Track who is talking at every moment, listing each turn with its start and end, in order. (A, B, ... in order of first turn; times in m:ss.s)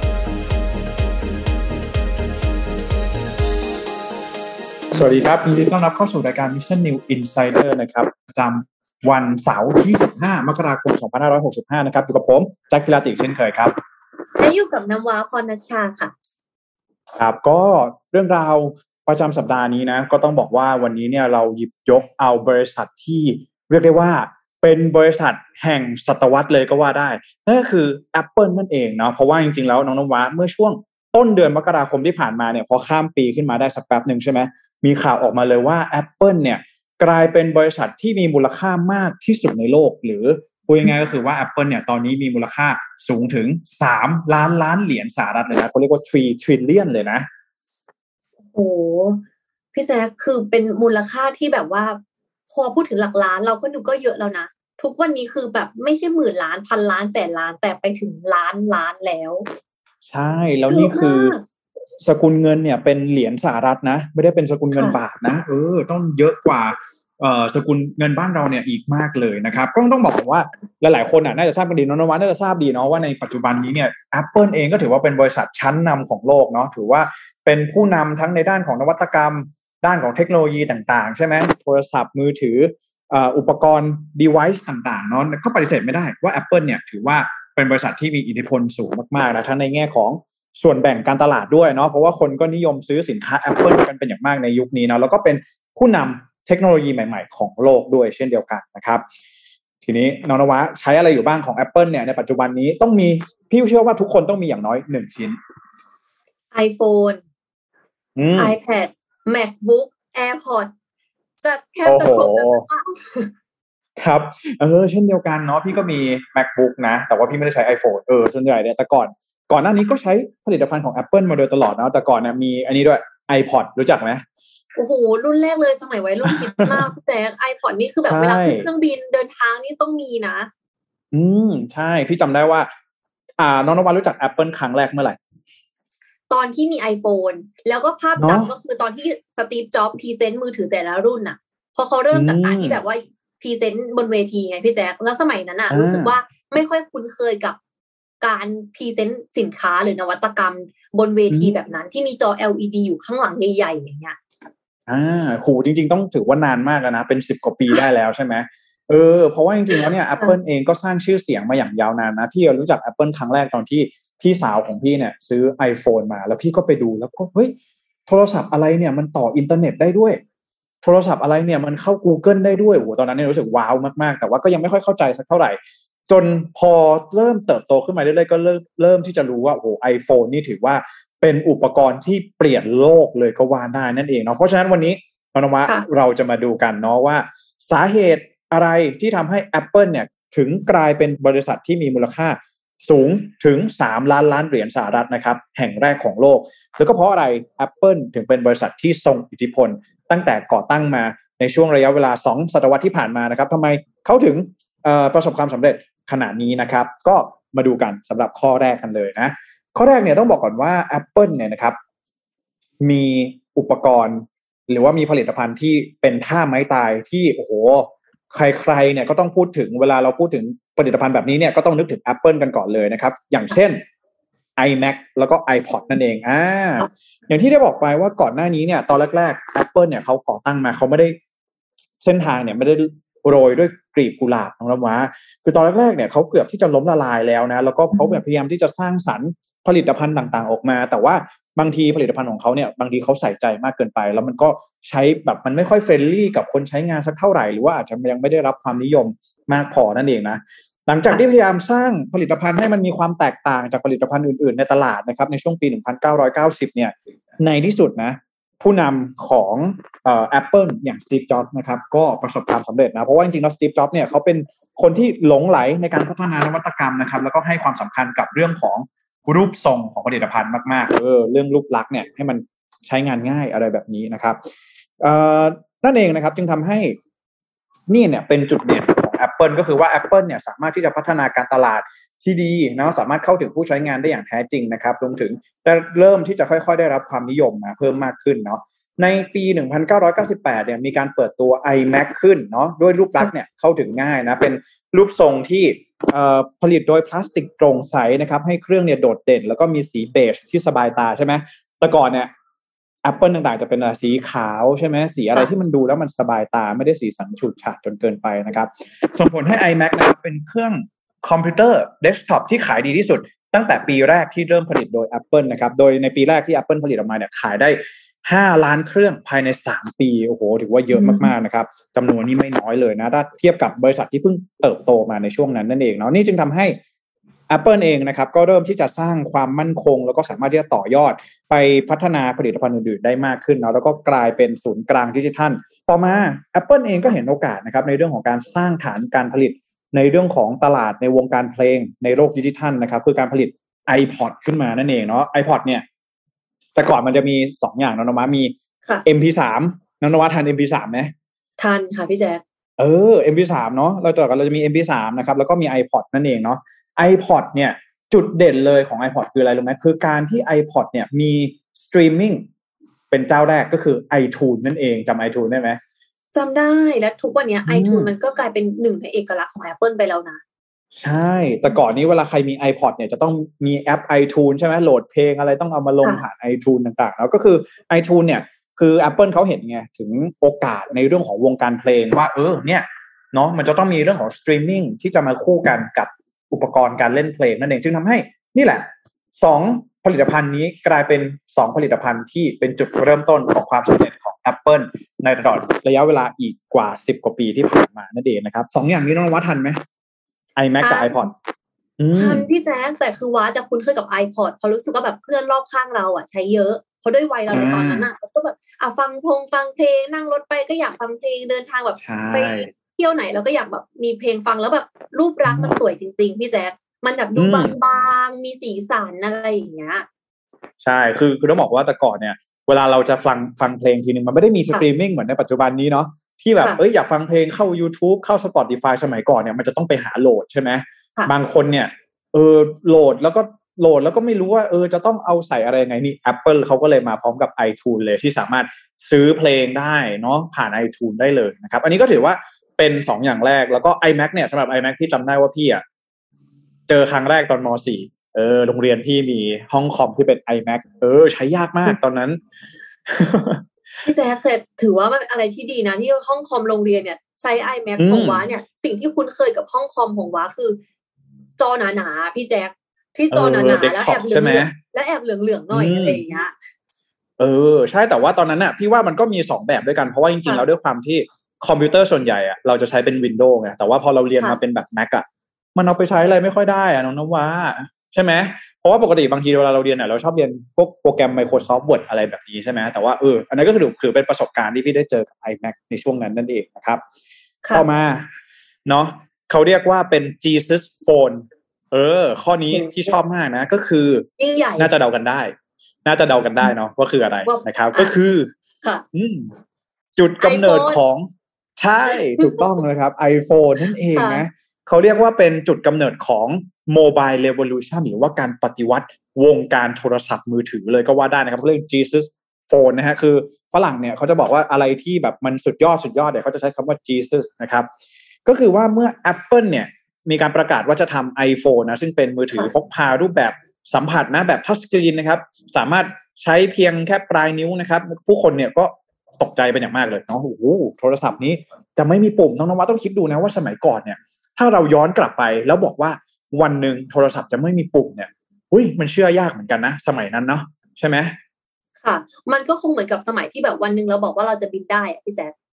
0:04.9-0:13.7 A
0:14.4-0:16.1 B
0:17.2-0:47.3 A
0:48.5-0:49.2 B
0:49.7-0:52.0 B
0:52.5-0:59.5 B
1:00.0-1:01.4 A
1:00.7-1:01.4 B
1:02.0-1:39.0 A
1:04.7-1:05.0 B
1:39.8-1:45.4 A
1:46.5-1:47.2 B
1:48.2-1:48.6 A
1:48.4-1:50.7 B
1:51.4-1:53.3 B
1:51.8-1:52.6 A
1:54.0-2:04.2 A
2:04.8-2:10.5 B
2:06.2-2:06.9 A
2:08.1-2:08.7 A
2:11.1-2:12.7 A
2:13.4-2:15.2 A
2:16.3-2:27.6 B
2:18.2-2:18.5 A
2:22.1-2:22.8 A
2:25.7-2:26.2 A
2:28.2-2:34.2 B
2:31.3-2:31.6 A
2:34.9-2:47.6 A
2:48.1-2:50.2 A
2:50.8-3:31.8 A
3:32.8-3:43.8 A
3:44.6-3:51.2 A
3:52.0-4:34.4 A
4:35.0-4:37.0 A
4:37.9-5:02.3 A
5:03.0-5:26.8 A
5:20.9-5:21.3 B
5:27.5-5:45.8 A
5:46.8-5:48.5 A
5:49.0-5:51.1 A
5:51.6-5:52.4 B
5:52.8-6:02.5 A
6:03.1-6:05.8 A
6:06.4-6:10.4 B
6:07.6-6:08.1 A
6:11.0-6:39.8 A
6:40.6-6:41.3 A
6:40.8-6:41.2 B
6:42.0-6:42.5 A
6:42.1-7:00.1 B
6:47.5-6:48.1 A
6:52.0-6:52.7 A
6:55.4-6:55.8 A
6:57.4-6:57.7 A
7:00.8-7:25.8 A
7:26.9-7:32.4 A
7:33.1-7:33.6 A
7:34.0-7:40.8 B
7:38.0-7:38.4 A
7:41.6-7:46.5 B
7:43.3-7:44.8 A
7:45.7-7:46.2 A
7:47.4-8:07.0 A
8:07.7-8:08.3 A
8:08.9-8:14.3 A
8:14.4-8:14.9 B
8:14.8-8:15.5 A
8:16.0-8:18.5 A
8:17.4-8:18.1 B
8:19.1-8:19.6 A
8:20.2-8:37.9 A
8:20.4-8:21.0 B
8:22.4-8:22.6 B
8:24.1-8:24.4 B
8:38.5-9:01.4 A
9:02.0-9:05.5 B